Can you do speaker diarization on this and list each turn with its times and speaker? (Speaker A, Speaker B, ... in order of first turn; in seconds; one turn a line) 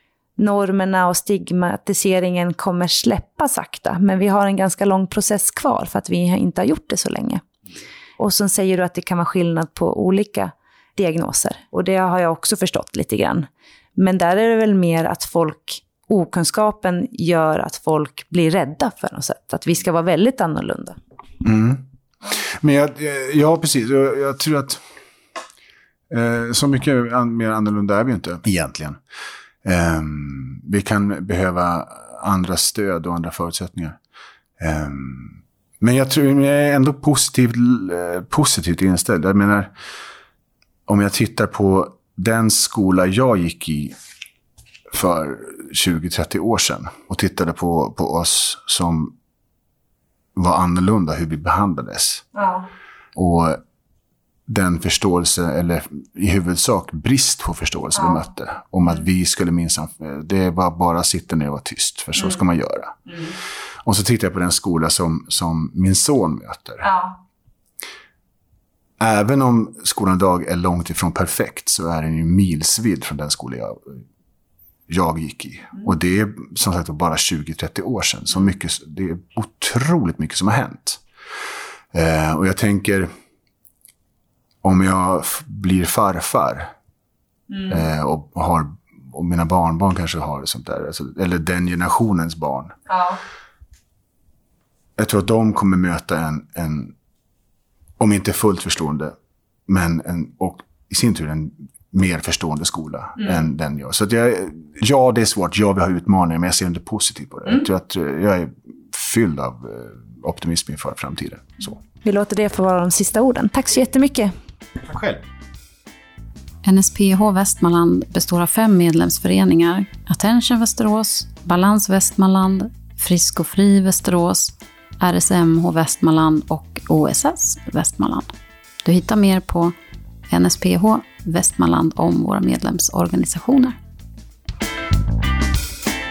Speaker A: 0.4-7.4
Speaker A: 8.2-21.0
Speaker B: 21.4-24.8
Speaker B: 26.1-29.0
Speaker B: 29.6-34.0
Speaker B: 34.6-39.7
Speaker B: 40.9-43.9
Speaker B: 44.9-49.1
Speaker B: 50.4-52.2
Speaker A: 52.4-52.7
Speaker B: 53.1-53.6
Speaker B: 54.5-63.1
Speaker B: 63.8-66.9
Speaker A: 66.8-67.2
Speaker B: 69.0-74.0
Speaker B: 74.9-81.0
Speaker B: 81.9-83.1
Speaker B: 84.6-86.7
Speaker A: 87.5-87.8
Speaker B: 87.7-92.7
Speaker A: 92.9-93.2
Speaker B: 95.0-96.9
Speaker B: 98.0-99.1
Speaker B: 99.7-111.8
Speaker A: 112.0-114.3
Speaker B: 114.8-115.2
Speaker C: 116.6-128.3
Speaker C: 128.8-129.7
Speaker C: 130.3-133.8